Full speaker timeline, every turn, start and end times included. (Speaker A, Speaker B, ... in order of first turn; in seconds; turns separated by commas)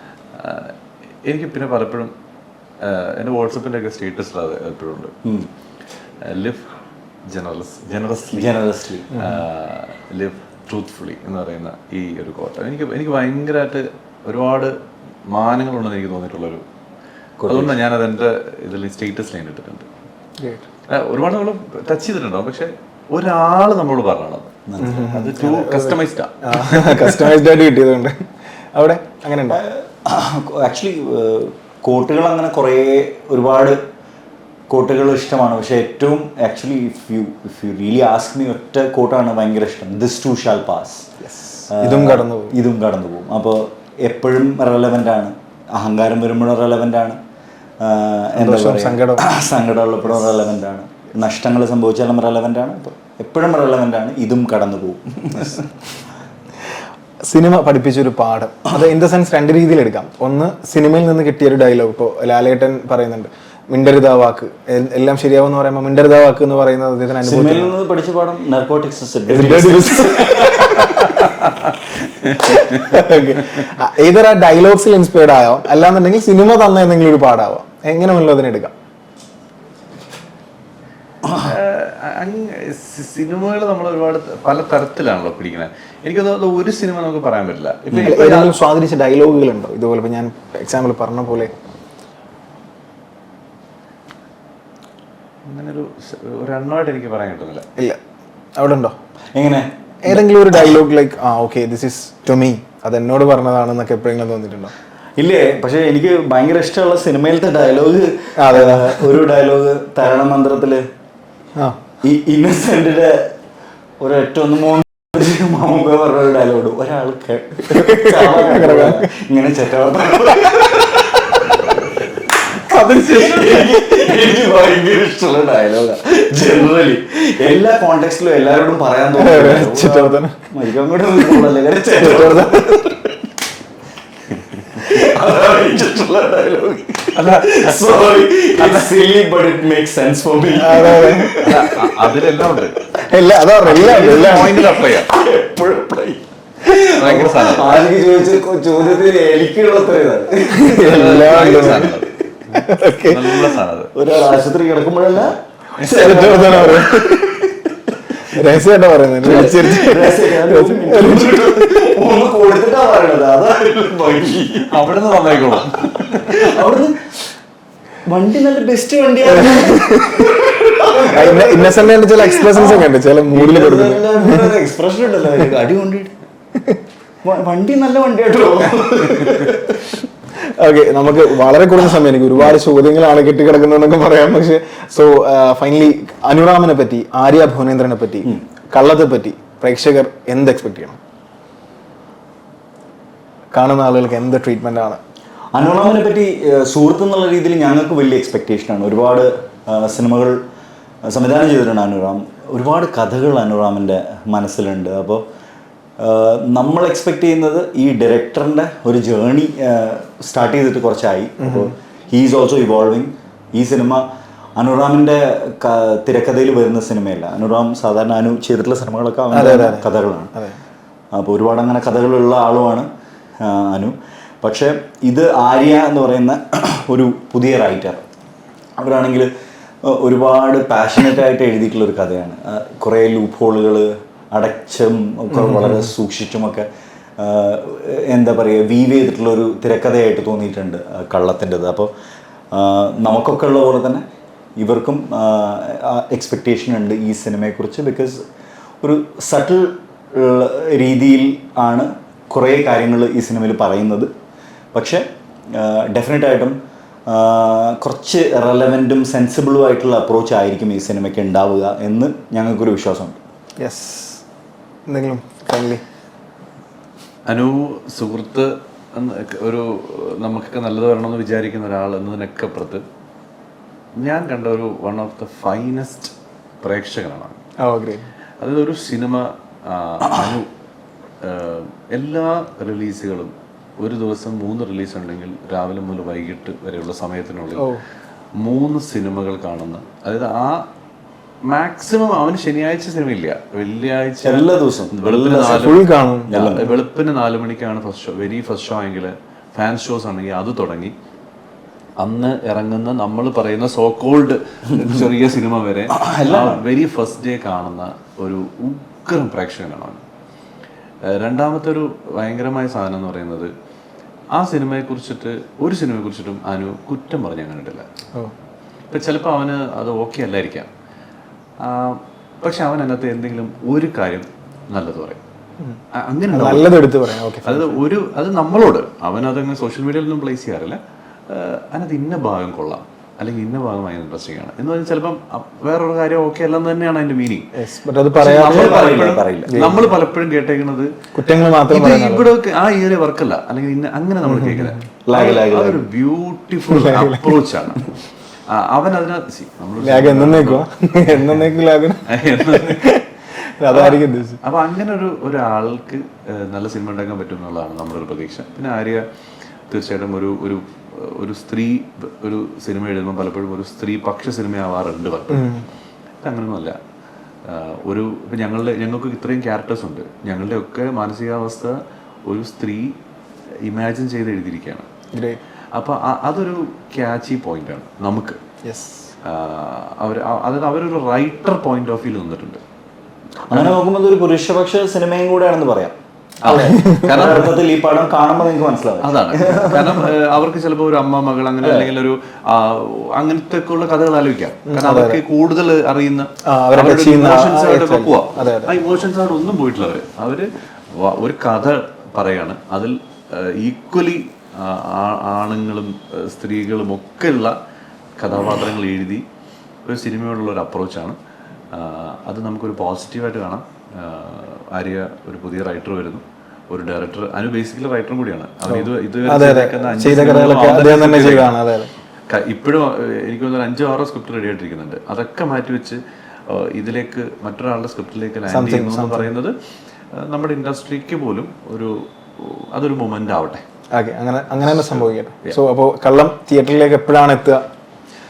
Speaker A: 0.3-2.1, Speaker A: 2.8-5.1, Speaker B: 5.2-5.5, Speaker A: 6.2-6.7, Speaker A: 7.2-8.5, Speaker B: 8.3-9.3, Speaker C: 9.1-9.4, Speaker A: 9.1-14.7, Speaker A: 15.3-16.6, Speaker B: 17.4-17.8, Speaker A: 17.5-19.9, Speaker C: 20.4-20.6, Speaker A: 20.9-27.4, Speaker B: 24.7-25.1, Speaker C: 24.8-29.6, Speaker B: 29.5-33.8, Speaker B: 34.7-41.1, Speaker C: 41.2-42.5, Speaker B: 41.7-47.2, Speaker B: 47.8-55.7, Speaker C: 48.4-49.3, Speaker C: 57.2-67.7, Speaker B: 67.2-71.1, Speaker C: 69.3-71.0, Speaker A: 70.7-73.0, Speaker C: 72.5-78.7, Speaker B: 81.2-81.5, Speaker A: 81.3-88.5, Speaker B: 87.9-88.2, Speaker C: 88.0-91.5, Speaker A: 95.5-97.7, Speaker C: 98.5-98.9, Speaker B: 99.3-100.2, Speaker C: 100.0-104.7, Speaker B: 105.2-110.8, Speaker C: 108.4-109.2, Speaker B: 112.0-113.3, Speaker B: 114.0-133.1, Speaker C: 117.7-119.1, Speaker A: 122.5-124.2, Speaker C: 129.2-130.4, Speaker C: 131.2-131.4, Speaker C: 132.0-133.0, Speaker B: 134.3-142.7, Speaker A: 137.1-138.9, Speaker C: 140.5-141.4, Speaker A: 141.4-142.8, Speaker C: 143.0-144.7, Speaker A: 143.6-145.1, Speaker B: 143.7-152.0, Speaker A: 146.8-147.9, Speaker C: 150.5-152.0, Speaker A: 150.7-153.9, Speaker C: 152.5-153.6, Speaker B: 153.9-158.2, Speaker A: 155.8-156.7, Speaker C: 155.8-157.5, Speaker C: 158.1-161.9, Speaker B: 159.2-167.1, Speaker A: 164.7-166.5, Speaker B: 168.1-176.1, Speaker C: 169.3-174.6, Speaker B: 177.2-180.0, Speaker C: 180.6-191.0, Speaker C: 193.5-195.0, Speaker B: 195.5-200.4, Speaker B: 201.1-205.2, Speaker B: 206.0-214.1, Speaker C: 211.4-211.7, Speaker B: 214.6-220.3, Speaker C: 219.3-220.6, Speaker B: 221.1-222.9, Speaker B: 223.4-228.0, Speaker B: 228.8-229.3, Speaker B: 229.8-236.7, Speaker C: 235.3-235.9, Speaker B: 237.2-241.9, Speaker B: 242.5-244.0, Speaker B: 244.6-248.2, Speaker B: 248.8-254.1, Speaker B: 254.7-263.2, Speaker C: 263.6-264.2, Speaker C: 264.9-265.8, Speaker A: 267.3-272.8, Speaker A: 274.0-277.4, Speaker C: 277.6-278.0, Speaker A: 278.4-280.5, Speaker A: 281.2-287.7, Speaker A: 288.4-290.6, Speaker A: 291.4-300.9, Speaker B: 294.2-295.7, Speaker C: 295.4-296.4, Speaker B: 296.3-296.7, Speaker A: 302.0-310.0, Speaker B: 305.9-306.6, Speaker A: 311.0-313.5, Speaker A: 314.3-317.9, Speaker A: 318.9-320.7, Speaker A: 321.6-325.2, Speaker A: 325.9-337.5, Speaker C: 326.3-327.8, Speaker C: 337.5-338.8, Speaker A: 338.2-340.9, Speaker B: 338.4-339.8, Speaker C: 339.5-339.9, Speaker C: 341.1-342.3, Speaker A: 341.7-347.9, Speaker C: 344.2-344.8, Speaker B: 345.1-345.8, Speaker C: 346.7-347.4, Speaker A: 348.5-350.6, Speaker C: 349.8-353.1, Speaker A: 352.1-353.0, Speaker C: 353.6-354.4, Speaker A: 353.7-359.1, Speaker A: 359.7-365.6, Speaker C: 365.3-365.6, Speaker A: 366.2-366.8, Speaker A: 367.4-372.9, Speaker A: 373.6-374.9, Speaker C: 375.1-375.4, Speaker A: 375.7-378.4, Speaker C: 378.6-379.1, Speaker A: 379.2-382.6, Speaker B: 383.5-390.1, Speaker A: 386.4-387.6, Speaker C: 386.5-387.5, Speaker A: 389.0-407.5, Speaker C: 394.7-395.2, Speaker C: 396.4-398.7, Speaker A: 408.2-409.2, Speaker A: 409.9-411.2, Speaker A: 411.7-421.6, Speaker C: 418.7-421.9, Speaker A: 422.3-429.5, Speaker C: 428.5-429.3, Speaker A: 430.1-433.6, Speaker C: 433.9-437.6, Speaker A: 434.6-435.6